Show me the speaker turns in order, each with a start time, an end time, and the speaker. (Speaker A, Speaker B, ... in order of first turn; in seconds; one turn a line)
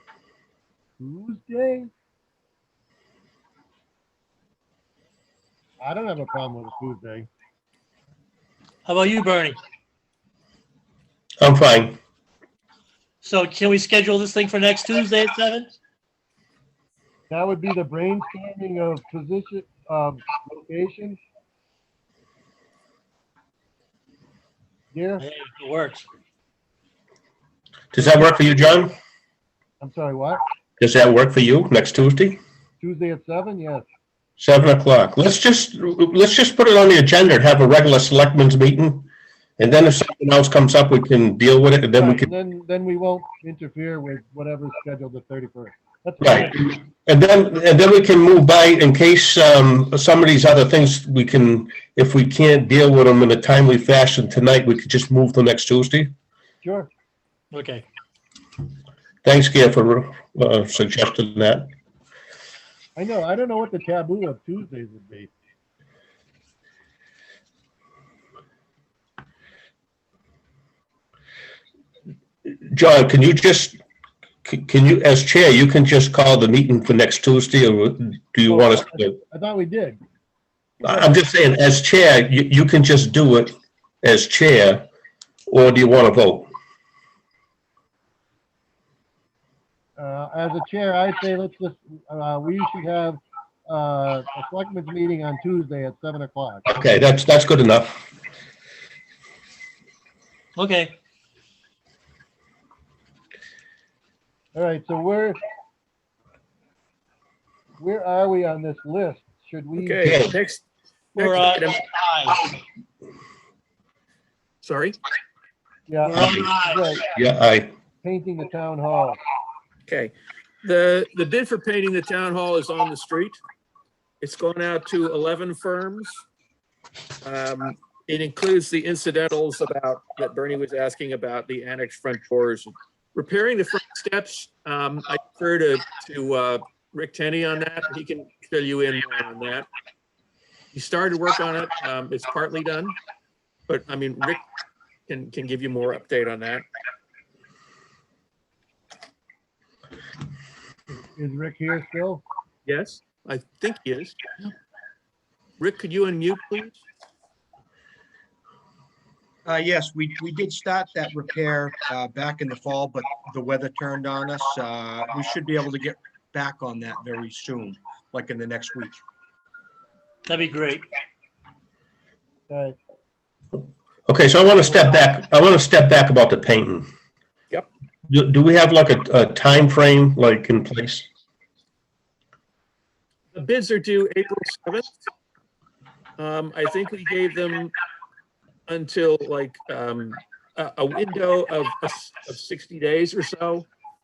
Speaker A: 1.0-1.9
Speaker A: 5.8-7.3
Speaker B: 8.8-9.6
Speaker C: 11.4-12.0
Speaker B: 13.2-15.7
Speaker A: 17.3-21.2
Speaker A: 24.9-25.2
Speaker B: 25.2-26.1
Speaker C: 27.9-28.9
Speaker A: 29.8-30.4
Speaker C: 30.8-32.4
Speaker A: 32.8-33.9
Speaker C: 34.4-42.3
Speaker A: 42.0-46.6
Speaker C: 46.2-56.1
Speaker A: 56.6-56.9
Speaker B: 57.5-57.8
Speaker C: 59.2-61.7
Speaker A: 63.0-65.3
Speaker C: 72.4-73.8
Speaker C: 74.4-79.2
Speaker A: 78.5-80.0
Speaker C: 80.8-84.9
Speaker A: 80.8-81.1
Speaker C: 85.5-86.5
Speaker A: 90.0-96.7
Speaker C: 96.7-98.0
Speaker B: 100.5-100.9
Speaker A: 104.5-105.4
Speaker A: 107.8-110.1
Speaker D: 109.8-110.6
Speaker C: 110.0-110.3
Speaker B: 111.1-112.5
Speaker D: 111.2-111.8
Speaker D: 114.6-115.0
Speaker A: 115.9-117.1
Speaker B: 116.0-116.9
Speaker C: 117.1-117.7
Speaker A: 118.0-119.2
Speaker D: 119.9-123.4
Speaker D: 124.2-126.2
Speaker D: 127.2-139.7
Speaker D: 140.7-142.9
Speaker D: 143.7-144.4
Speaker D: 145.1-146.6
Speaker A: 151.0-152.2
Speaker D: 152.7-154.5
Speaker D: 155.6-156.8
Speaker E: 159.4-169.0
Speaker B: 170.3-170.9
Speaker A: 172.5-172.8
Speaker C: 174.1-176.9
Speaker C: 178.1-181.1
Speaker D: 183.3-185.0
Speaker D: 186.2-187.7
Speaker D: 188.7-193.7